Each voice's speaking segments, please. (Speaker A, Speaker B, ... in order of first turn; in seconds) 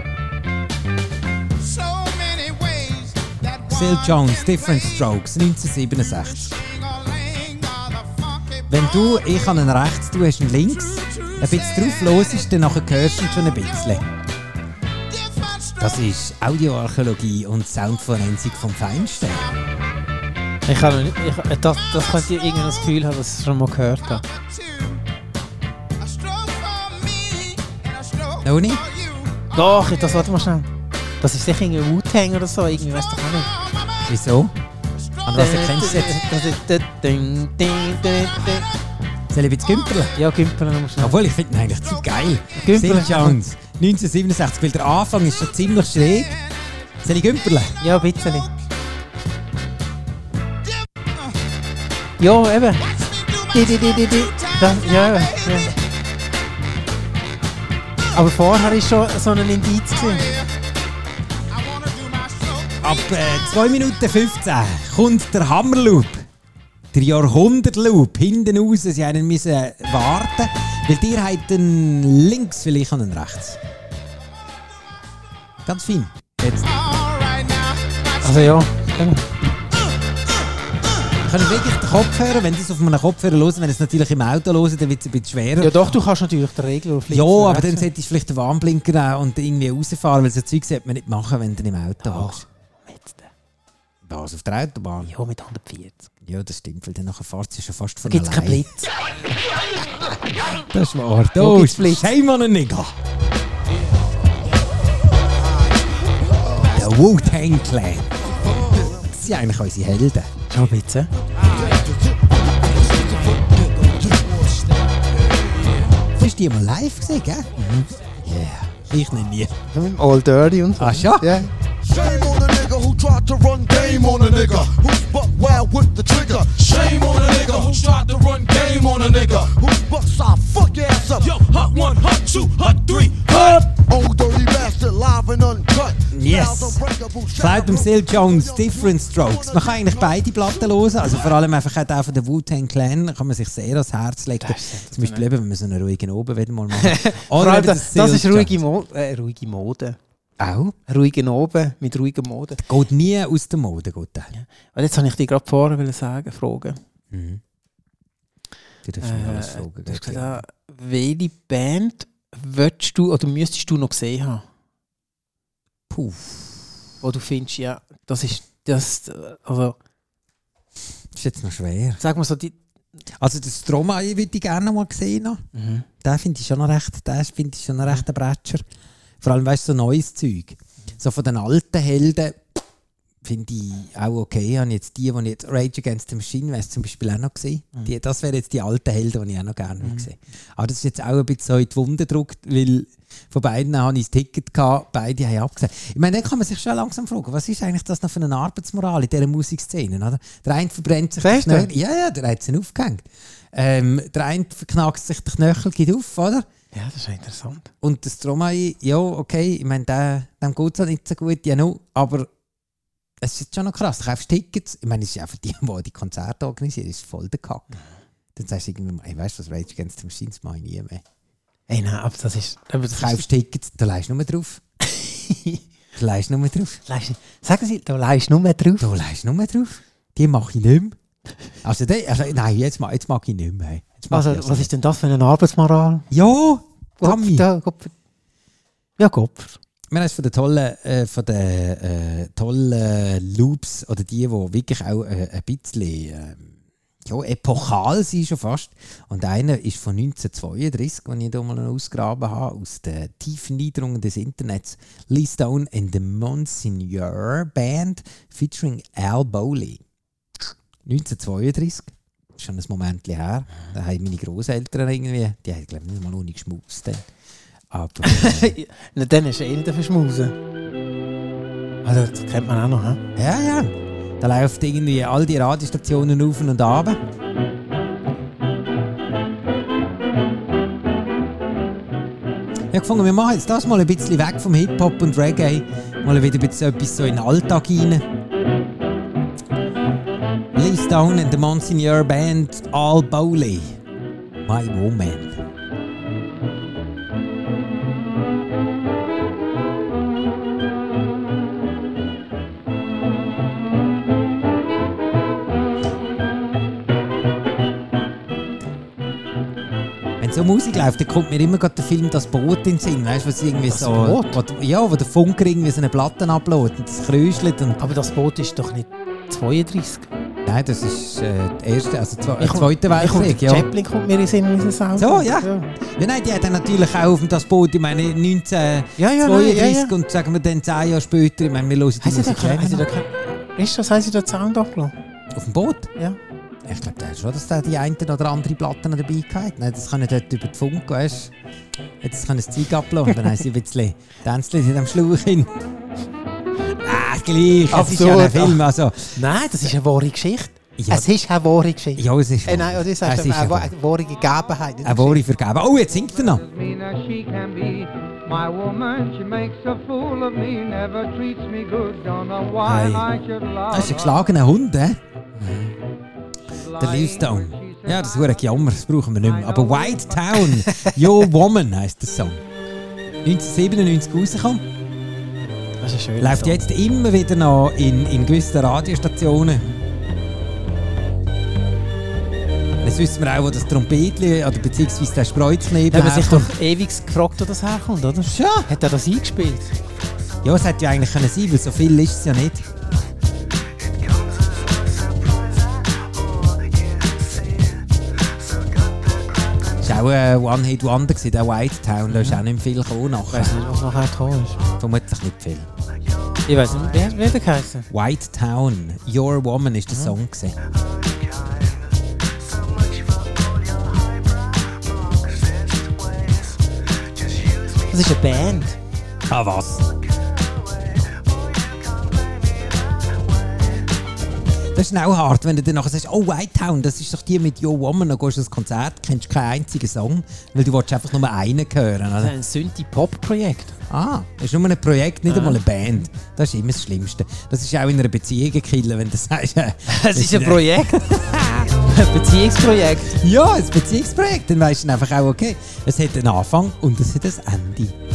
Speaker A: 1.6-5.0, 6.5-9.2, 11.0-12.3, 15.1-15.8, 24.4-25.0, 26.0-29.5, 53.0-55.7, 60.2-60.5, 61.6-63.0, 76.8-78.6, 356.2-364.1, 366.6-368.5, 369.2-370.4
Speaker B: 3.7-6.6, 8.7-14.1, 15.8-19.5, 28.4-28.8, 34.1-34.5, 35.2-36.2, 39.3-40.2, 41.0-46.4, 47.0-47.8, 62.8-66.3, 66.9-73.6, 75.6-76.7, 81.2-86.0, 87.1-92.5, 94.1-95.1, 96.2-98.7, 100.7-103.0, 106.6-110.3, 116.2-119.5, 120.8-121.5, 136.1-148.6, 150.4-150.8, 152.7-154.3, 157.1-157.4, 158.8-160.4, 165.9-166.8, 171.1-172.0, 173.2-175.4, 176.0-178.6, 179.2-182.4, 183.2-206.5, 207.8-212.3, 213.2-217.8, 218.3-221.0, 222.9-224.6, 226.0-226.8, 228.8-231.0, 231.6-234.7, 236.1-237.4, 239.9-246.5, 247.1-259.8, 260.9-267.1, 267.7-268.6, 273.2-277.0, 282.7-288.1, 290.5-293.8, 294.4-295.4, 310.2-317.9, 320.4-323.7, 325.0-332.9, 335.3-335.9, 336.6-341.3, 342.0-345.5, 346.8-349.2, 350.8-351.1, 352.0-353.7, 354.8-356.4, 363.7-365.7, 366.8-372.4, 373.2-374.6, 376.2-379.7, 382.8-386.5, 388.2-388.7, 390.4-392.7, 399.8-403.6, 404.8-405.7, 407.9-410.6, 419.3-419.9, 424.8-432.3, 433.9-441.7, 443.2-447.9
Speaker C: 20.7-24.2, 29.5-30.7, 31.2-33.5, 35.4-38.7, 40.1-41.2, 42.6-43.4, 47.8-48.5, 52.2-52.9, 53.5-55.7, 58.1-60.3, 78.2-79.2, 85.6-87.9, 92.0-93.3, 95.0-96.1, 98.0-98.9, 101.4-102.1, 110.5-111.1, 119.7-121.5, 144.4-145.3, 146.8-150.0, 150.9-152.6, 154.3-156.8, 159.0-164.4, 167.0-169.8, 172.0-172.6, 175.5-175.9, 189.8-190.1, 201.2-201.7, 206.7-207.7, 221.7-223.2, 224.8-225.6, 226.9-228.9, 234.1-236.1, 237.0-237.9, 239.0-239.6, 268.0-270.4, 271.8-273.0, 313.6-314.4, 317.8-320.1, 322.4-325.7, 329.0-329.9, 332.0-334.9, 347.7-355.2, 362.6-363.1, 370.6-371.0, 375.8-376.6, 385.9-389.8, 402.1-402.4, 403.3-404.6, 406.5-407.9, 409.9-410.1, 417.9-418.8, 432.2-433.8, 435.3-435.6, 439.9-441.1, 441.8-443.2
Speaker D: 111.5-112.0, 112.8-114.6, 121.8-139.8